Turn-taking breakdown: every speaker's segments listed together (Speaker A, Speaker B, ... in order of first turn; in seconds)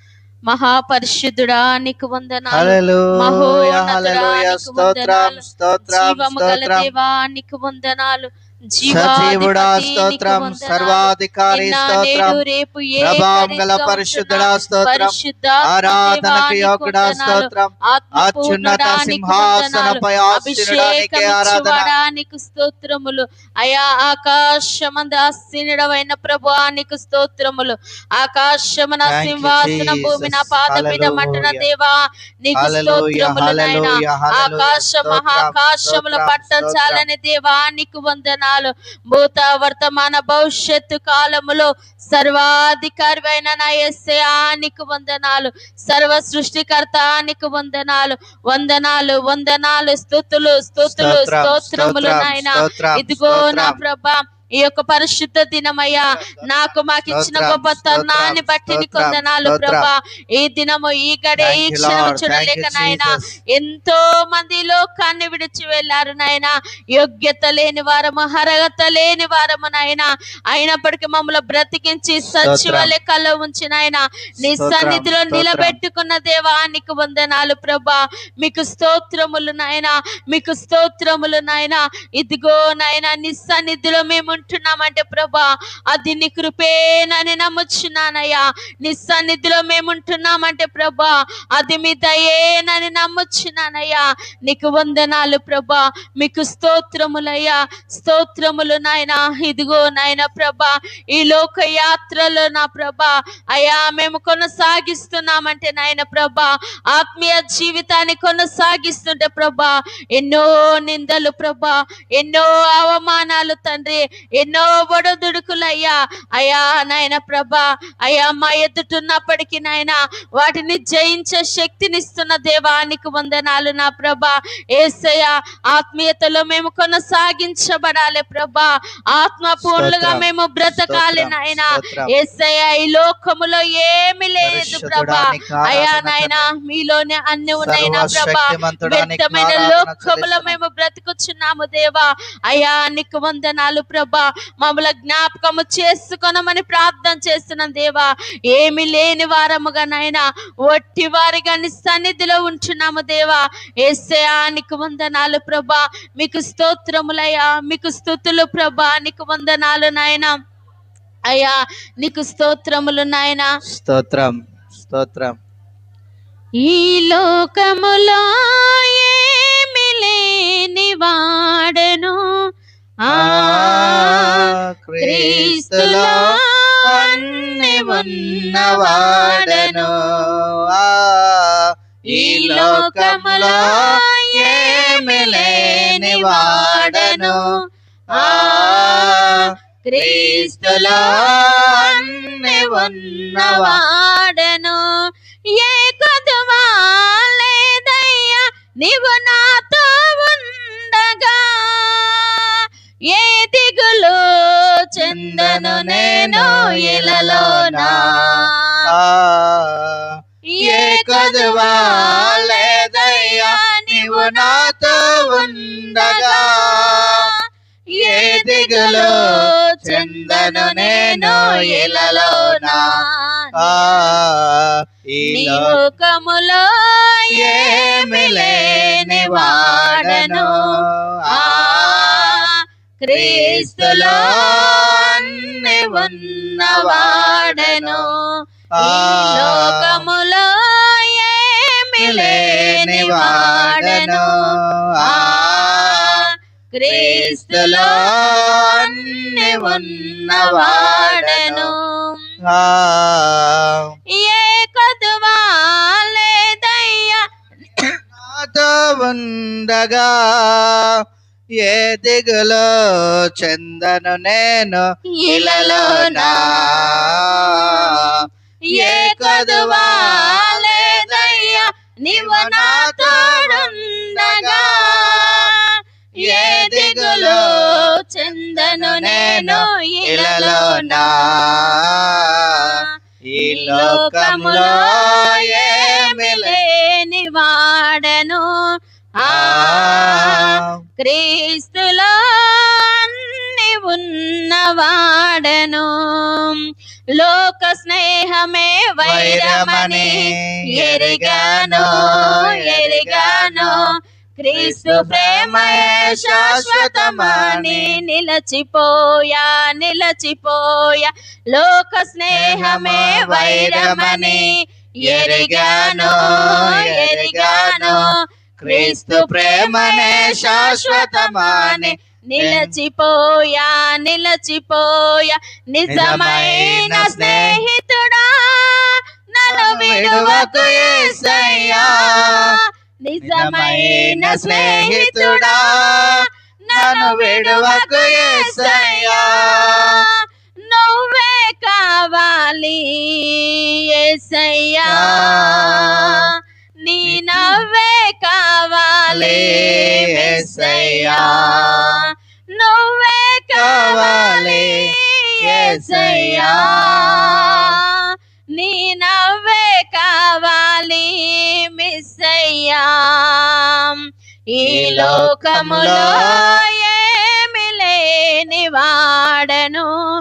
Speaker A: 0.5-160.4, 161.3-163.5, 166.6-172.2, 173.1-180.4, 182.1-187.4, 188.1-194.8, 195.5-208.8, 210.5-217.4, 217.9-224.1, 225.2-238.1, 238.8-244.5, 245.0-252.2, 254.2-258.0, 265.2-268.1, 268.8-281.8, 282.5-282.9, 283.4-303.9, 304.4-346.3, 346.8-369.9
Speaker B: 2.5-6.9, 8.8-12.4, 13.0-15.2, 15.7-21.9, 29.1-31.6, 32.5-37.0, 50.8-53.8, 56.0-59.9, 61.4-63.3, 72.3-72.9, 74.5-75.8, 129.6-132.1, 134.4-136.5, 137.6-140.6, 163.7-165.4, 173.1-176.2, 176.9-187.4, 188.2-193.8, 205.0-209.9, 210.6-217.3, 217.9-222.9, 223.6-225.8, 227.3-232.4, 233.1-238.1, 238.8-240.0, 242.0-246.3, 246.9-251.7, 252.5-253.8, 258.1-260.9, 261.6-268.2, 268.7-275.5, 276.2-282.8, 283.3-286.6, 289.3-290.7, 299.0-303.9, 304.5-308.0, 312.3-314.5, 315.0-318.1, 318.6-322.7, 325.9-327.6, 329.5-332.6, 333.2-340.0, 344.9-346.3, 347.1-347.6, 349.1-352.1, 353.6-357.8, 364.6-366.6